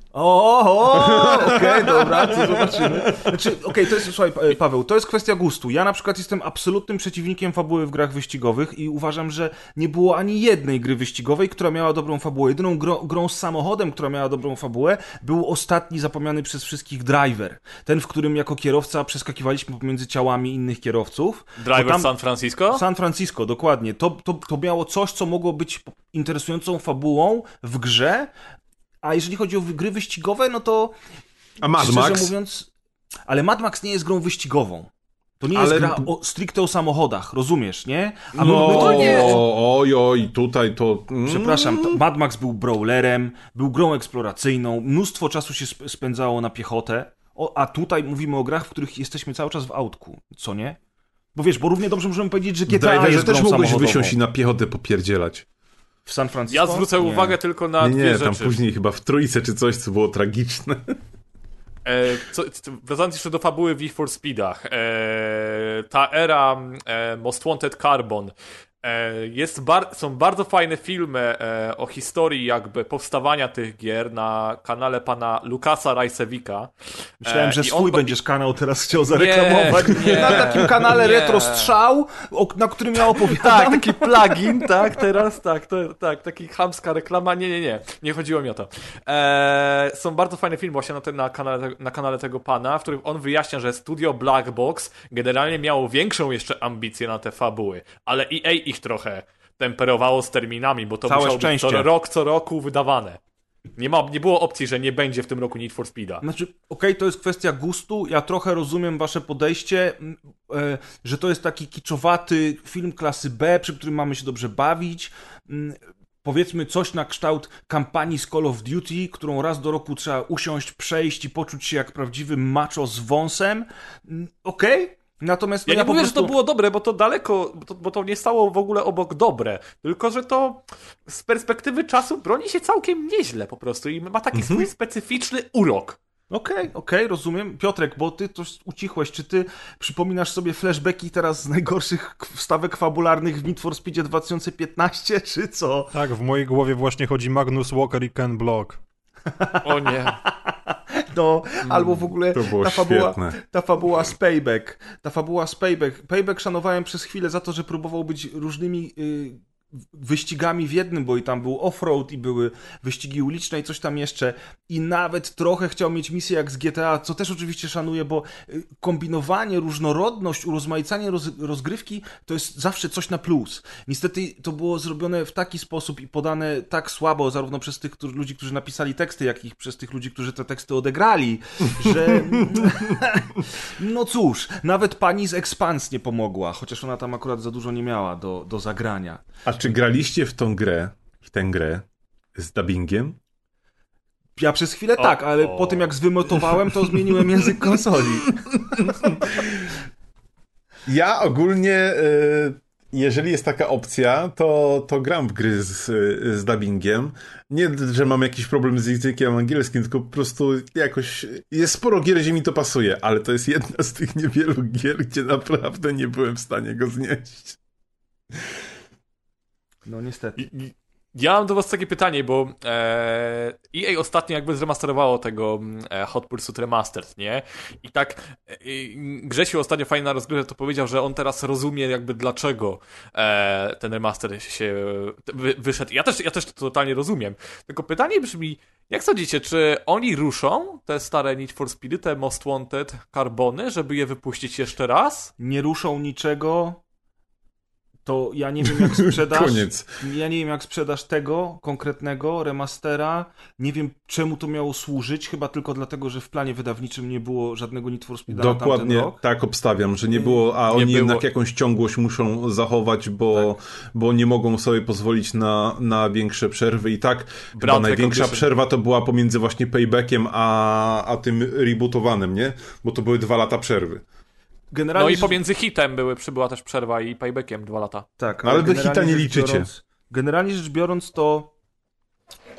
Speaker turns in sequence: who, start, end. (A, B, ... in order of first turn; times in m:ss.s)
0:00.1-0:22.1 A
0:00.9-0:03.8 B
0:21.6-0:22.8 C
0:22.7-0:28.3 A
0:29.0-0:30.9 A
0:31.6-0:32.3 B
0:31.8-0:32.7 A
0:33.3-0:39.4 A
0:35.5-0:36.1 B
0:38.4-0:42.0 B
0:38.6-0:39.4 C
0:41.2-0:50.8 A
0:51.3-0:54.1 A
0:52.7-0:55.4 B
0:56.0-0:57.3 A
0:56.5-0:58.6 C
0:57.8-1:01.0 B
1:01.8-1:18.2 C
1:17.2-1:24.8 A
1:19.1-1:21.7 C
1:23.0-1:43.2 C
1:41.0-1:41.9 A
1:43.8-1:46.2 C
1:46.2-2:06.3 A
2:05.7-2:16.0 C
2:14.3-2:14.7 B
2:16.3-2:25.9 A
2:25.9-2:28.8 D
2:29.3-2:39.4 A
2:29.6-2:30.2 C
2:31.7-2:32.0 C
2:32.3-2:33.4 B
2:39.9-3:09.2 A
3:01.8-3:02.9 B
3:09.4-3:13.2 B
3:14.4-3:18.4 A
3:15.0-3:15.9 C
3:18.8-3:19.8 B
3:20.8-3:37.6 B
3:39.8-3:40.5 A
3:40.4-4:05.3 C
4:05.4-4:06.8 A
4:08.0-4:19.2 A
4:08.6-4:10.0 B
4:18.3-4:34.0 B
4:20.7-4:21.2 C
4:27.6-4:28.4 C
4:34.7-4:35.4 A
4:35.0-4:38.1 C
4:38.2-4:41.5 A
4:38.4-4:39.7 B